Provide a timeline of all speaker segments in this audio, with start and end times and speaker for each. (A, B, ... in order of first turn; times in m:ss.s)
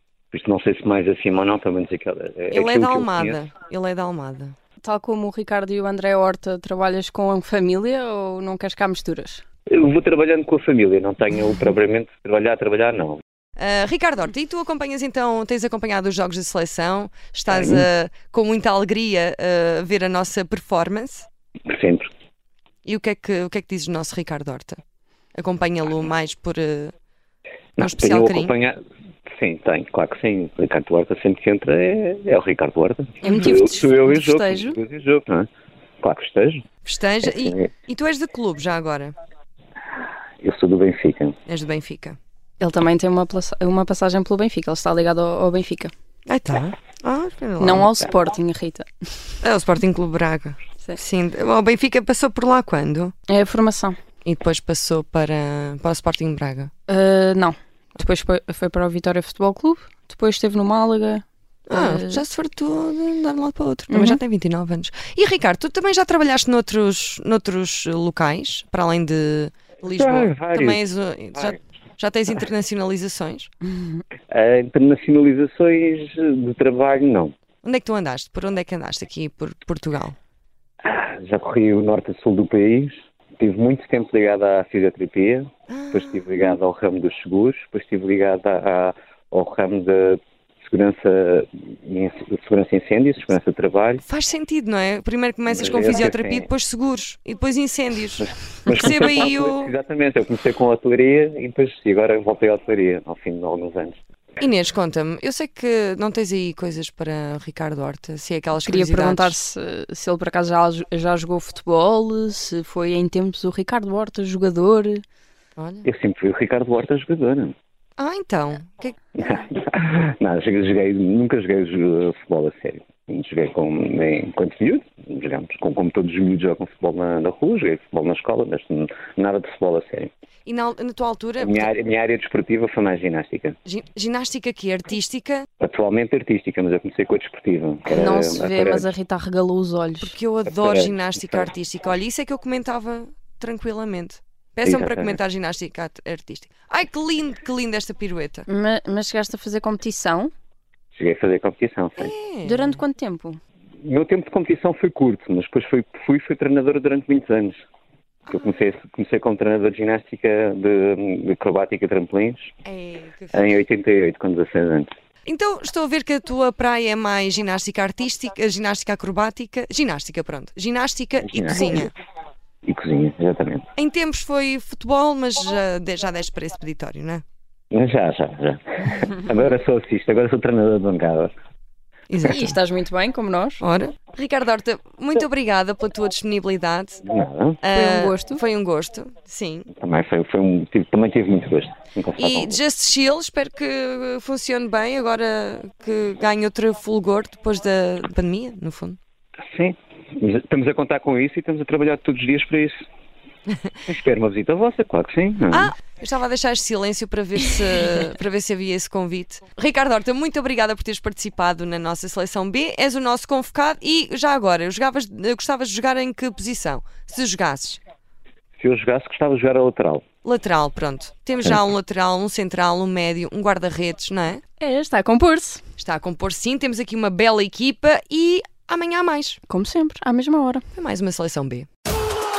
0:00.3-0:03.4 A
0:02.5-0:04.6 B
0:04.8-0:09.4 C
0:09.7-0:13.2 A
0:13.6-0:21.3 B
0:17.5-0:17.9 A
0:21.7-0:22.1 A
0:22.8-0:24.8 B
0:25.4-0:26.9 B
0:27.8-0:35.5 A
0:27.8-0:28.5 B
0:33.2-0:34.8 C
0:36.0-0:36.6 A
0:36.8-0:39.2 B
0:37.2-0:37.7 A
0:40.4-0:41.4 A
0:41.5-0:42.2 B
0:42.6-0:45.9 C
0:46.3-0:48.0 B
0:47.6-0:48.9 C
0:49.4-0:53.1 B
0:53.3-0:54.0 C
0:54.2-0:56.7 B
0:56.9-1:02.2 C
1:01.7-1:13.5 B
1:03.9-1:04.2 C
1:09.8-1:10.8 A
1:13.7-1:14.0 C
1:14.3-1:17.3 A
1:17.6-1:20.2 B
1:20.8-1:34.0 A
1:25.7-1:26.3 B
1:34.0-1:39.7 B
1:35.5-1:36.5 A
1:38.2-1:44.0 A
1:44.4-1:49.4 B
1:48.6-1:55.0 C
1:55.6-1:55.9 B
1:55.8-1:57.6 A
1:58.0-1:59.0 B
1:59.2-2:10.1 A
2:10.5-2:11.7 B
2:11.4-2:13.6 A
2:13.7-2:15.5 B
2:15.6-2:18.9 A
2:17.9-2:20.1 C
2:20.0-2:28.5 B
2:20.5-2:21.5 A
2:24.6-2:25.2 A
2:28.5-2:30.3 C
2:30.9-2:32.1 A
2:32.0-2:32.8 B
2:32.4-2:33.4 C
2:33.8-2:37.6 A
2:38.3-2:38.6 B
2:38.3-2:42.6 A
2:42.6-2:43.6 B
2:43.3-2:44.9 A
2:45.3-2:51.9 B
2:51.2-2:51.9 A
2:52.7-2:53.7 A
2:53.8-2:57.2 B
2:57.7-3:01.3 A
3:02.1-3:02.6 B
3:02.3-3:03.6 C
3:03.6-3:07.0 B
3:07.0-3:07.6 A
3:07.6-3:09.7 B
3:07.7-3:08.4 C
3:09.7-3:12.6 A
3:12.2-3:19.0 B
3:19.5-3:22.8 A
3:23.9-3:25.7 A
3:25.5-3:37.8 B
3:38.6-3:40.0 A
3:40.2-3:44.4 B
3:44.6-3:45.6 C
3:45.8-3:49.4 B
3:49.5-3:50.6 C
3:50.8-3:51.7 B